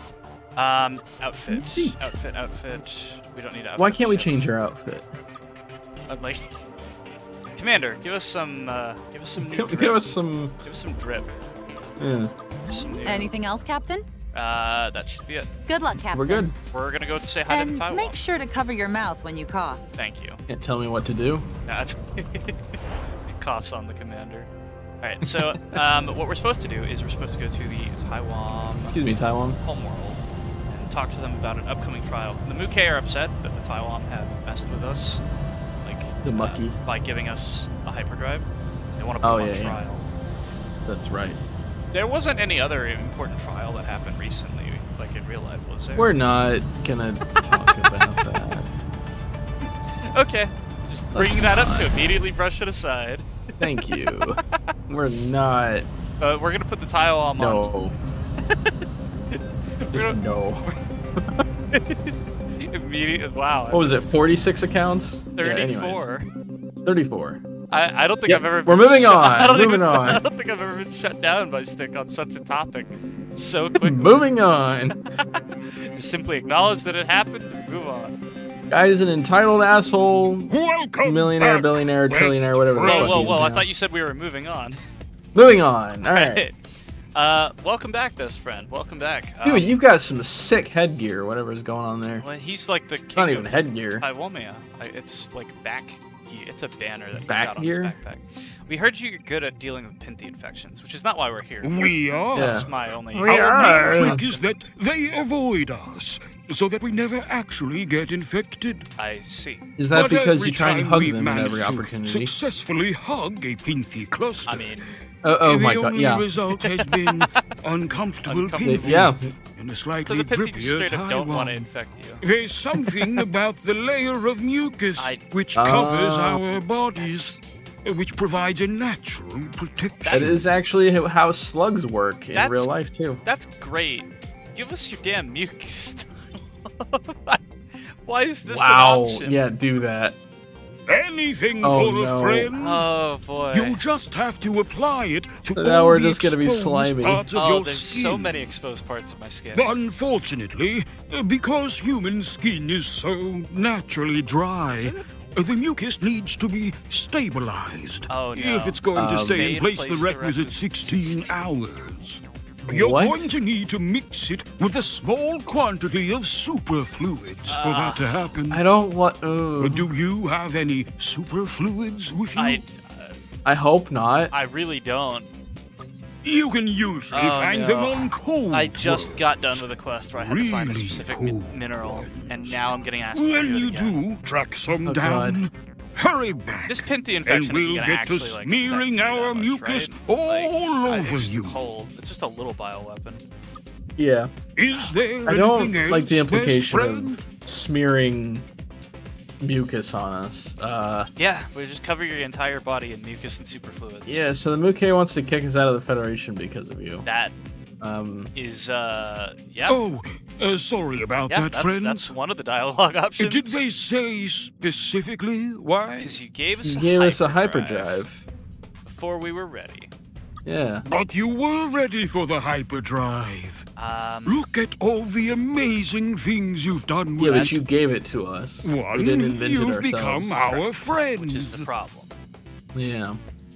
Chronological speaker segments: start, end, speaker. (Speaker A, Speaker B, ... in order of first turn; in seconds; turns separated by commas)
Speaker A: 0.6-4.4, Speaker B: 1.5-2.1, Speaker B: 3.8-5.2, Speaker A: 6.1-6.6, Speaker A: 7.6-10.0, Speaker B: 9.4-10.6, Speaker A: 10.6-11.3, Speaker B: 12.0-12.3, Speaker A: 12.7-13.4, Speaker C: 13.0-14.1, Speaker A: 14.3-15.5, Speaker C: 15.7-16.5, Speaker B: 16.1-16.5, Speaker A: 16.7-18.2, Speaker C: 17.5-19.9, Speaker A: 20.0-20.4, Speaker B: 20.5-21.5, Speaker A: 21.7-24.5, Speaker A: 25.0-29.0, Speaker B: 25.2-25.8, Speaker B: 28.8-29.6, Speaker A: 29.6-35.2, Speaker A: 35.8-40.1, Speaker B: 36.2-36.8, Speaker B: 39.2-39.8, Speaker B: 40.9-41.4, Speaker A: 41.9-46.1, Speaker B: 46.0-48.7, Speaker A: 49.6-53.3, Speaker B: 51.1-51.9, Speaker B: 53.6-55.9, Speaker A: 56.2-57.7, Speaker B: 57.4-58.0, Speaker A: 59.3-60.8, Speaker B: 59.9-61.4, Speaker A: 61.7-64.1, Speaker B: 63.7-66.1, Speaker A: 65.4-66.3, Speaker B: 66.8-67.4, Speaker A: 67.7-74.2, Speaker B: 68.3-70.2, Speaker B: 73.8-75.0, Speaker A: 75.3-78.1, Speaker B: 78.7-80.5, Speaker D: 80.5-83.4, Speaker B: 81.0-83.7, Speaker A: 82.8-84.8, Speaker B: 85.3-86.4, Speaker A: 86.0-86.6, Speaker A: 87.2-89.7, Speaker B: 89.4-92.2, Speaker A: 92.2-104.4, Speaker B: 93.2-94.0, Speaker B: 97.1-98.0, Speaker D: 101.6-108.9, Speaker B: 102.3-104.2, Speaker A: 109.0-109.7, Speaker B: 109.8-112.3, Speaker D: 109.9-114.8, Speaker A: 114.5-114.9, Speaker B: 115.2-116.2, Speaker D: 115.4-121.7, Speaker A: 116.5-117.3, Speaker A: 118.2-119.1, Speaker B: 118.6-119.3, Speaker A: 120.1-122.2, Speaker D: 122.2-130.4, Speaker B: 122.8-123.2, Speaker A: 125.0-125.2, Speaker B: 125.6-126.4, Speaker A: 127.0-127.4, Speaker A: 130.0-130.3, Speaker B: 130.1-133.2, Speaker A: 132.3-132.7, Speaker A: 133.2-139.4, Speaker B: 138.5-140.2, Speaker D: 140.9-142.8, Speaker B: 141.6-142.5, Speaker A: 142.5-143.8, Speaker D: 143.5-148.5, Speaker B: 145.6-147.3, Speaker A: 147.3-149.7, Speaker D: 149.5-168.6, Speaker A: 154.8-155.1, Speaker A: 158.1-161.3, Speaker B: 158.9-159.4, Speaker B: 162.7-163.3, Speaker A: 167.5-168.3, Speaker B: 168.5-169.9, Speaker D: 169.6-172.6, Speaker A: 172.4-173.2, Speaker B: 173.4-174.3, Speaker A: 174.3-175.3, Speaker D: 176.2-179.6, Speaker A: 177.1-184.0, Speaker D: 180.1-191.7, Speaker B: 184.9-185.4, Speaker A: 186.7-193.2, Speaker B: 194.0-194.3, Speaker D: 194.6-197.3, Speaker B: 195.3-198.5, Speaker B: 199.4-201.1, Speaker A: 201.2-204.2, Speaker B: 204.1-207.1, Speaker A: 207.1-207.3, Speaker B: 207.8-208.3, Speaker A: 208.3-209.8, Speaker D: 209.7-212.1, Speaker A: 211.3-213.6, Speaker D: 213.2-216.2, Speaker A: 216.0-218.0, Speaker B: 216.6-218.3, Speaker A: 218.8-219.9, Speaker B: 220.4-220.8, Speaker D: 220.9-223.7, Speaker A: 223.8-224.5, Speaker D: 224.3-227.6, Speaker B: 227.2-230.4, Speaker D: 228.6-231.7, Speaker A: 230.3-232.1, Speaker B: 232.7-233.2